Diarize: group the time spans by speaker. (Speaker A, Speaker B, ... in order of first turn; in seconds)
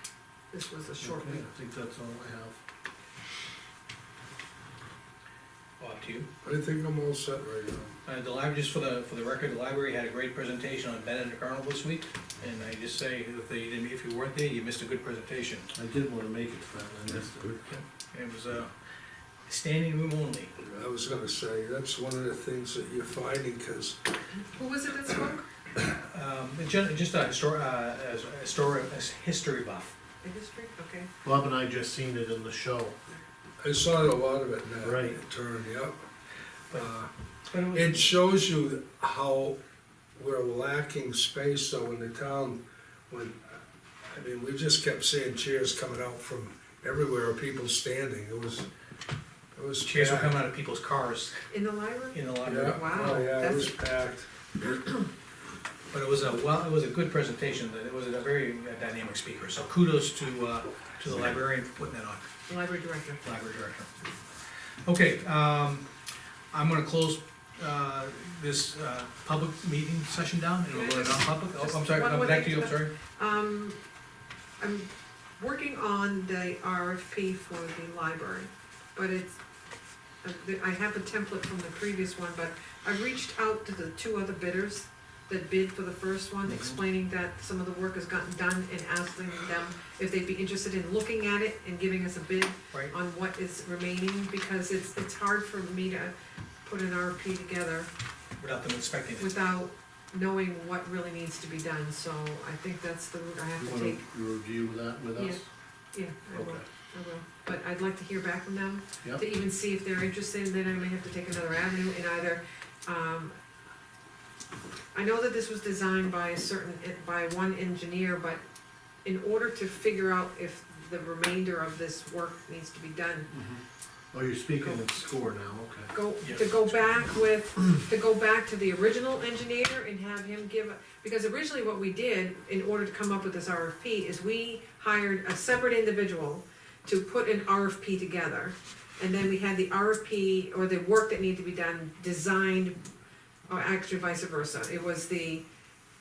Speaker A: 0.5-1.4, 24.3-25.4, 30.2-31.1, 51.5-53.8, 62.5-63.2, 70.7-73.8, 74.6-79.4, 80.2-96.1, 96.6-97.9, 99.2-104.0, 105.9-113.3, 114.9-118.4, 119.0-123.3, 125.9-142.8, 143.5-145.4
Speaker B: 1.0-2.6, 15.7-17.6, 31.2-33.0, 34.8-35.2, 86.5-86.8, 103.6-105.5, 106.3-106.6, 123.3-125.9
Speaker C: 5.8-6.3, 8.0-15.7, 17.7-18.7, 19.5-20.5, 25.9-29.9, 37.5-38.1, 49.8-51.5, 52.1-53.1, 55.9-62.2, 63.2-63.9, 64.8-65.9, 66.5-72.9, 98.4-99.3, 126.2-126.7
Speaker D: 6.4-8.0, 20.6-24.0, 33.6-36.0, 36.7-37.1, 37.7-39.6, 40.1-48.7, 49.5-50.4, 52.4-54.3